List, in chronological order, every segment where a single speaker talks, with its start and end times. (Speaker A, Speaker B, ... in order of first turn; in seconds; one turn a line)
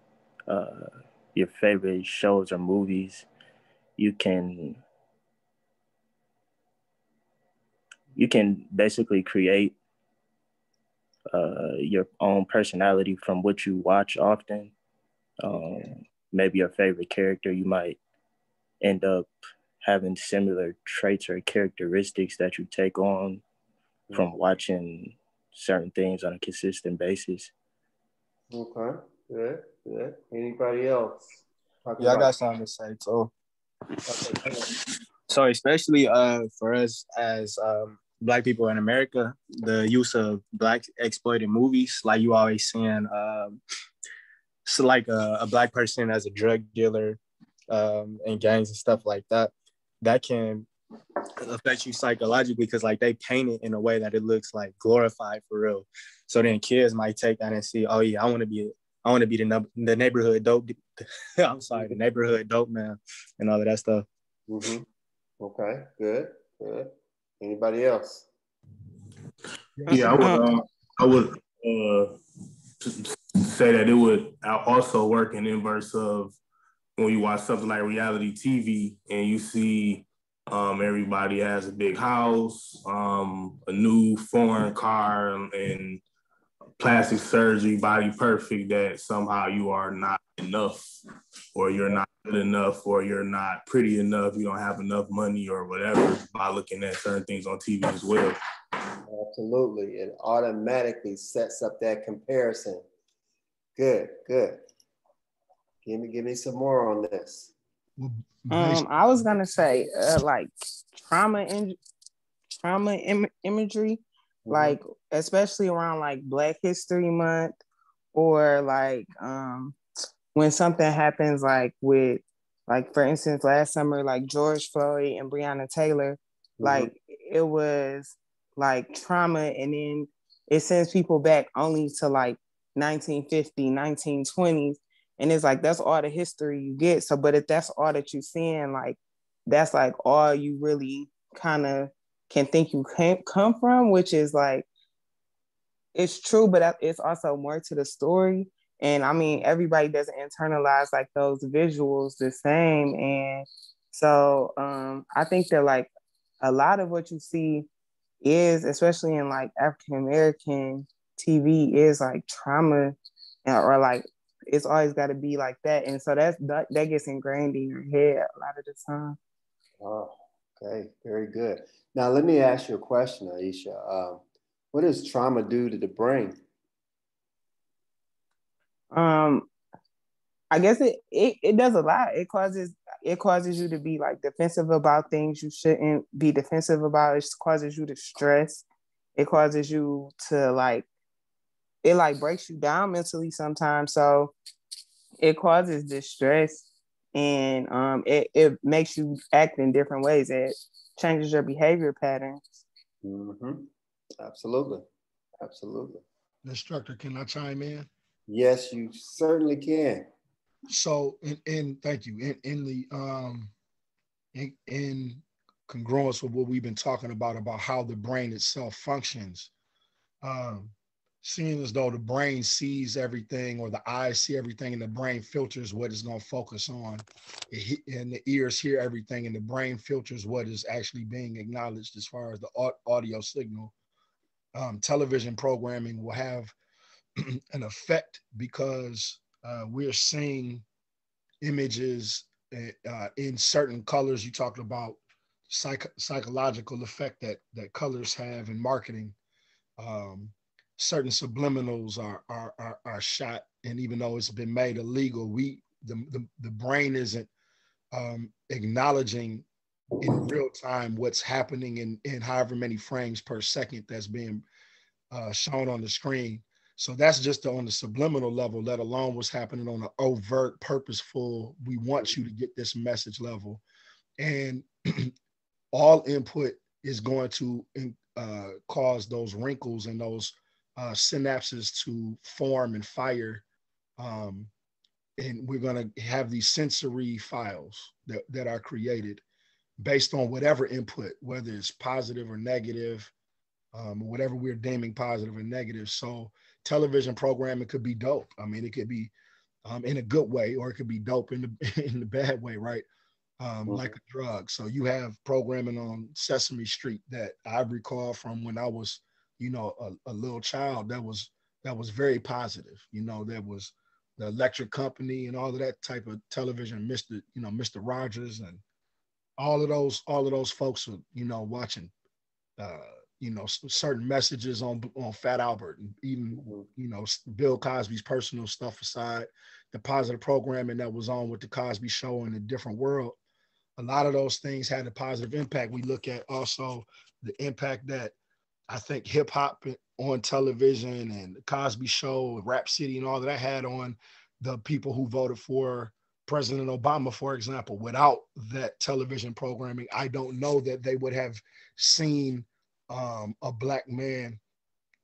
Speaker A: 0.5-3.3
Speaker A: 4.0-4.8
Speaker A: 8.1-9.8
Speaker A: 11.3-14.7
Speaker A: 15.4-18.0
Speaker A: 18.8-19.3
Speaker A: 19.8-23.4
Speaker A: 24.1-27.5
Speaker B: 28.5-31.3
Speaker B: 31.8-32.3
Speaker C: 32.0-33.3
Speaker B: 34.1-34.6
Speaker C: 35.3-43.6
Speaker C: 44.6-50.7
Speaker C: 51.4-64.0
Speaker B: 64.5-64.8
Speaker B: 65.4-68.3
Speaker D: 69.9-72.2
Speaker D: 72.8-76.3
Speaker D: 77.0-86.0
Speaker D: 86.8-91.0
Speaker D: 91.5-98.4
Speaker B: 99.0-102.8
Speaker B: 103.8-104.6
Speaker B: 105.8-107.5
Speaker E: 108.0-109.3
Speaker F: 108.5-111.8
Speaker F: 112.6-117.6
Speaker B: 114.5-114.8
Speaker F: 118.1-119.8
Speaker F: 120.3-144.7
Speaker B: 126.6-126.9
Speaker F: 145.9-155.9
Speaker F: 156.4-157.7
Speaker F: 158.2-169.2
Speaker B: 169.8-174.2
Speaker B: 174.7-176.4
Speaker F: 178.9-179.5
Speaker F: 180.5-190.9
Speaker F: 191.8-194.3
Speaker F: 195.2-202.4
Speaker B: 203.0-203.7
Speaker B: 204.2-204.8
Speaker B: 205.4-206.0
Speaker E: 206.4-207.9
Speaker B: 208.3-210.1
Speaker E: 210.7-213.5
Speaker E: 214.3-219.5
Speaker E: 220.2-233.7
Speaker E: 234.5-236.5
Speaker E: 237.2-240.6
Speaker E: 241.4-249.2
Speaker E: 249.8-257.3
Speaker E: 257.9-259.4
Speaker E: 260.0-264.4
Speaker E: 265.1-273.6
Speaker E: 274.2-275.1
Speaker E: 275.7-283.4
Speaker E: 284.0-284.5
Speaker E: 285.2-289.2
Speaker E: 289.8-293.1
Speaker E: 293.7-299.1
Speaker E: 299.6-302.9
Speaker E: 303.4-318.6
Speaker B: 303.6-303.9
Speaker E: 319.4-321.9
Speaker E: 322.6-333.1
Speaker B: 326.4-326.6
Speaker E: 333.8-338.1
Speaker E: 338.7-354.4